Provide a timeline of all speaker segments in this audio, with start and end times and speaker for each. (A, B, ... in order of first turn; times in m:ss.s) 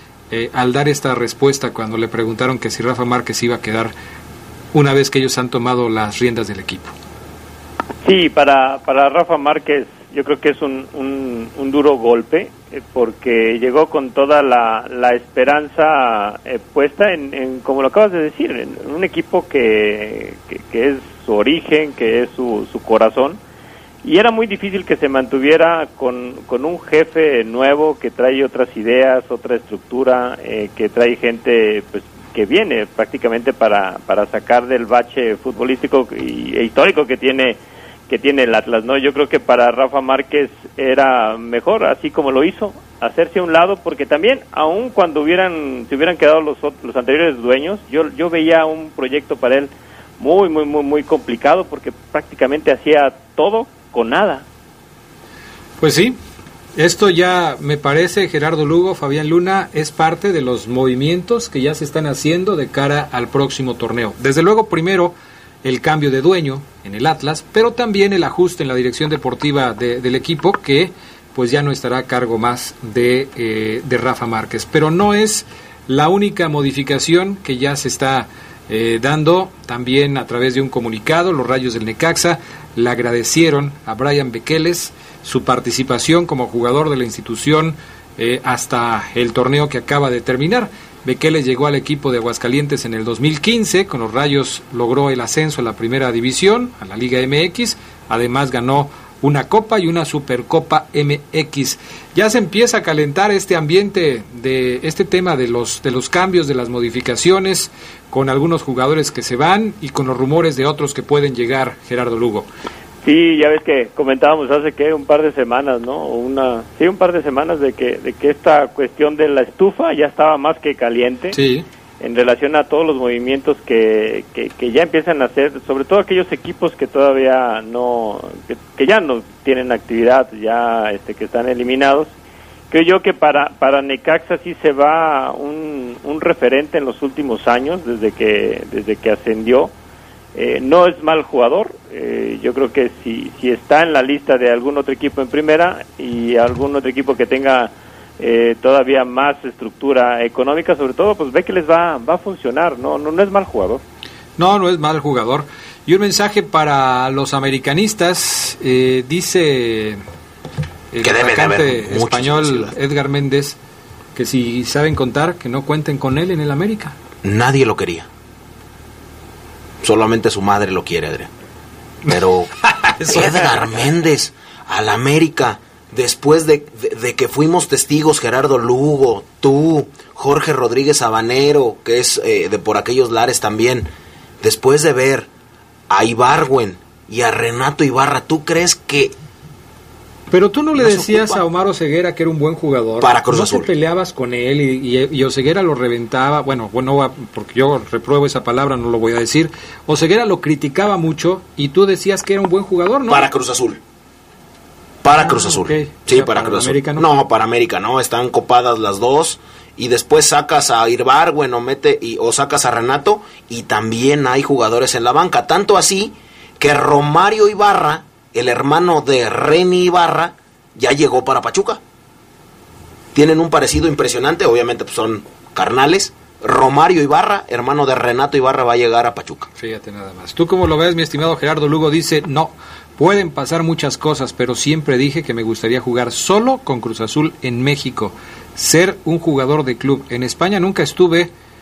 0:00.3-0:03.9 A
0:04.7-0:06.9 A
0:08.0-0:23.4 B
0:24.0-0:37.6 B
0:38.1-0:54.4 B
0:55.8-0:56.2 A
0:56.8-1:52.4 A
1:53.0-2:01.4 B
2:01.3-2:01.6 A
2:02.0-2:12.1 B
2:12.7-2:19.7 B
2:20.4-2:33.8 B
2:34.4-2:40.0 A
2:40.9-2:43.6 A
2:41.0-2:42.7 C
2:44.2-2:46.9 A
2:47.2-2:48.1 C
2:49.8-2:51.3 C
2:52.1-2:52.5 C
2:52.6-2:53.6 A
2:53.1-3:03.9 C
3:04.4-3:05.3 C
3:05.9-3:09.2 C
3:10.3-3:23.3 A
3:10.8-3:11.4 C
3:13.0-3:13.7 C
3:23.1-3:23.8 C
3:25.0-3:41.8 C
3:25.1-3:27.1 A
3:43.1-3:49.5 C
3:49.6-4:01.3 A